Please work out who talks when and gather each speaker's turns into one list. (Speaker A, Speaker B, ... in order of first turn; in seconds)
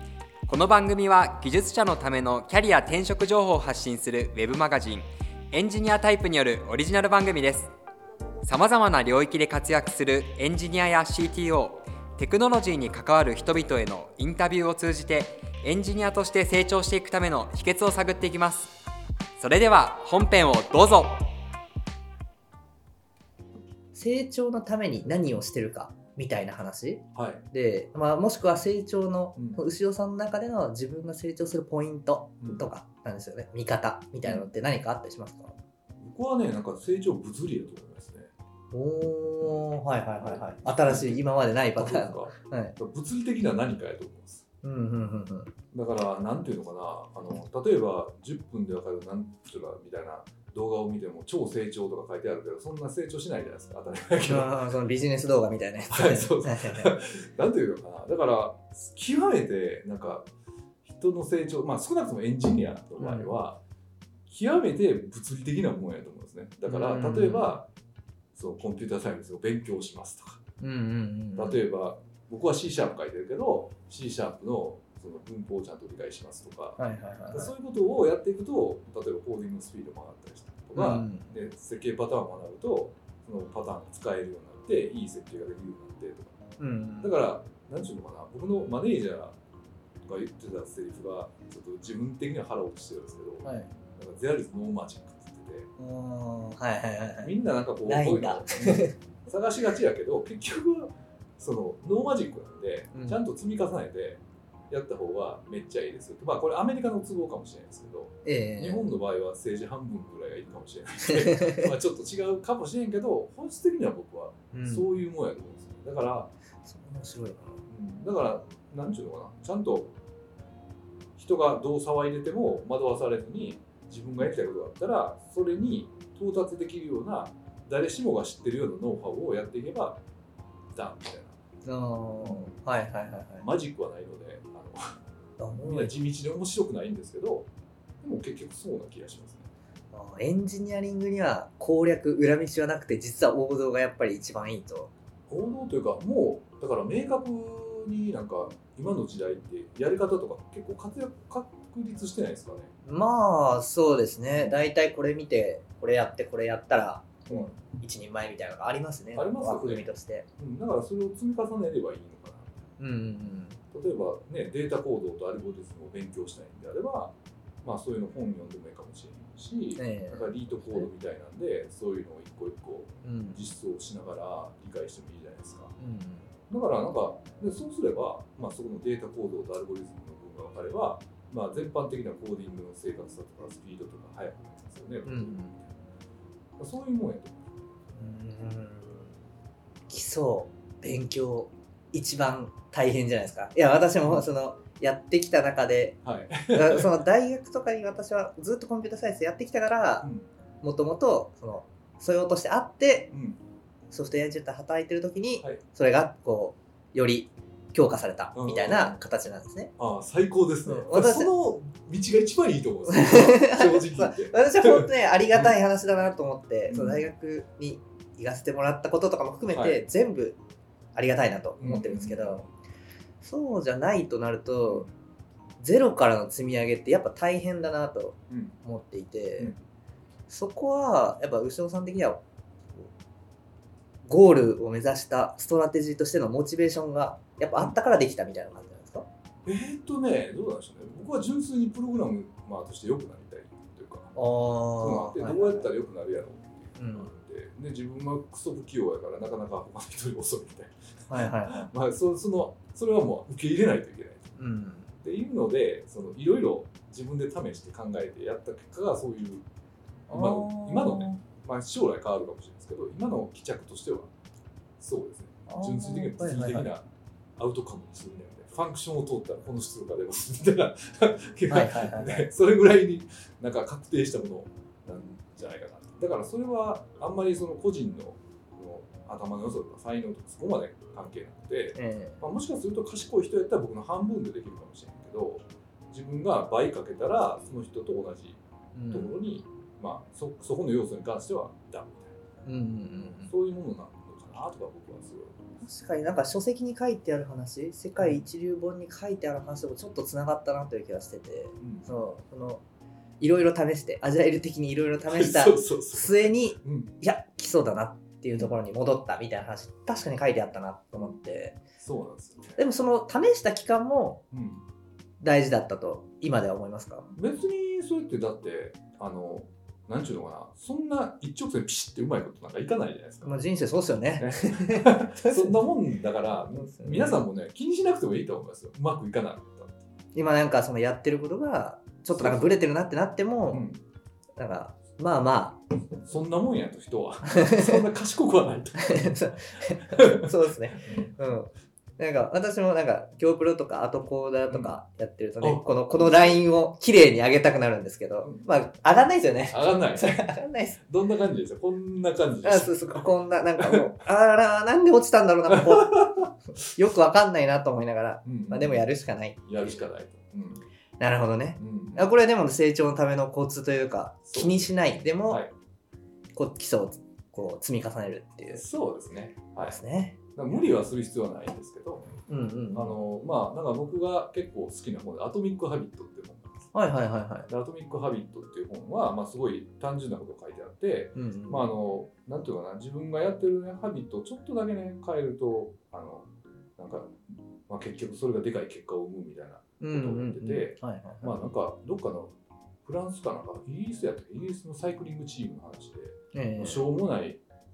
Speaker A: 0.5-7.7, 8.4-18.7, 19.4-21.3
Speaker B: 23.9-35.5, 38.7-42.8, 44.6-45.5, 54.2-56.9, 63.0-63.3, 66.7-67.6, 70.6-71.6, 76.8-77.5, 80.7-81.3, 86.6-87.2, 93.4-93.7, 95.8-99.0, 102.9-103.2, 108.2-108.9, 111.0-111.7, 114.5-115.0, 116.6-117.6, 131.6-133.4, 135.4-135.9, 139.9-144.9, 152.8-160.3, 162.8-163.6, 169.8-170.9, 173.0-173.4, 175.8-176.3, 185.0-185.6, 187.9-189.1, 189.9-196.0, 196.5-200.1, 200.6-203.1, 203.9-209.7, 210.6-211.3, 212.9-220.4, 220.9-222.5, 223.2-224.9, 225.6-229.5, 230.3-232.2, 234.0-239.1, 244.1-245.7, 246.8-247.1, 251.1-251.7, 254.3-254.9, 260.1-261.2, 265.5-266.7, 271.5-272.3, 281.7-282.2, 288.7-289.1, 292.4-293.3, 295.6-302.6, 303.2-311.6, 312.6-314.2, 315.2-317.1, 323.2-325.6, 326.5-327.2, 330.1-333.7, 334.4-335.6, 337.2-337.8, 338.8-350.8, 352.4-359.8, 361.0-365.4, 366.3-368.6, 369.7-370.2, 372.3-373.0, 376.7-377.5, 381.1-381.7, 389.8-391.4, 396.3-396.9
Speaker C: 27.1-27.4, 29.4-29.6, 32.4-32.6, 34.2-34.5, 36.0-38.3, 39.4-44.5, 45.7-54.6, 55.9-60.3, 60.8-63.6, 64.3-67.7, 68.3-70.4, 71.3-76.8, 77.3-86.4, 87.0-89.4, 90.0-95.7, 97.2-116.3, 117.7-119.9, 121.2-130.0, 130.7-131.4, 132.2-132.6, 133.4-134.9, 135.6-137.5, 138.0-139.5, 145.3-152.7, 157.3-157.6, 159.1-159.9, 160.4-162.6, 163.7-175.7, 176.5-185.4, 186.6-187.4, 194.0-194.2, 196.0-196.9, 200.0-200.3, 203.1-203.4, 208.3-209.0, 209.8-215.6, 216.7-217.1, 219.5-219.8, 221.6-222.4, 228.3-228.6, 239.4-244.1, 244.8-254.3, 255.0-259.4, 260.1-264.1, 264.8-292.2, 293.0-295.4, 298.0-298.2, 301.6-302.0, 305.1-306.9, 308.3-308.6, 311.8-312.6, 314.3-314.6, 317.1-323.4, 324.2-329.8, 332.1-332.6, 333.5-333.8, 336.0-339.1, 339.9-341.1, 344.5-344.8, 345.4-346.4, 348.2-348.5, 349.5-353.9, 355.5-356.3, 358.2-358.9, 359.4-360.6, 361.6-362.1, 364.2-364.7, 365.3-365.5, 368.5-369.8, 370.3-372.1, 372.7-376.5, 377.5-387.1, 387.7-392.3, 392.8-397.4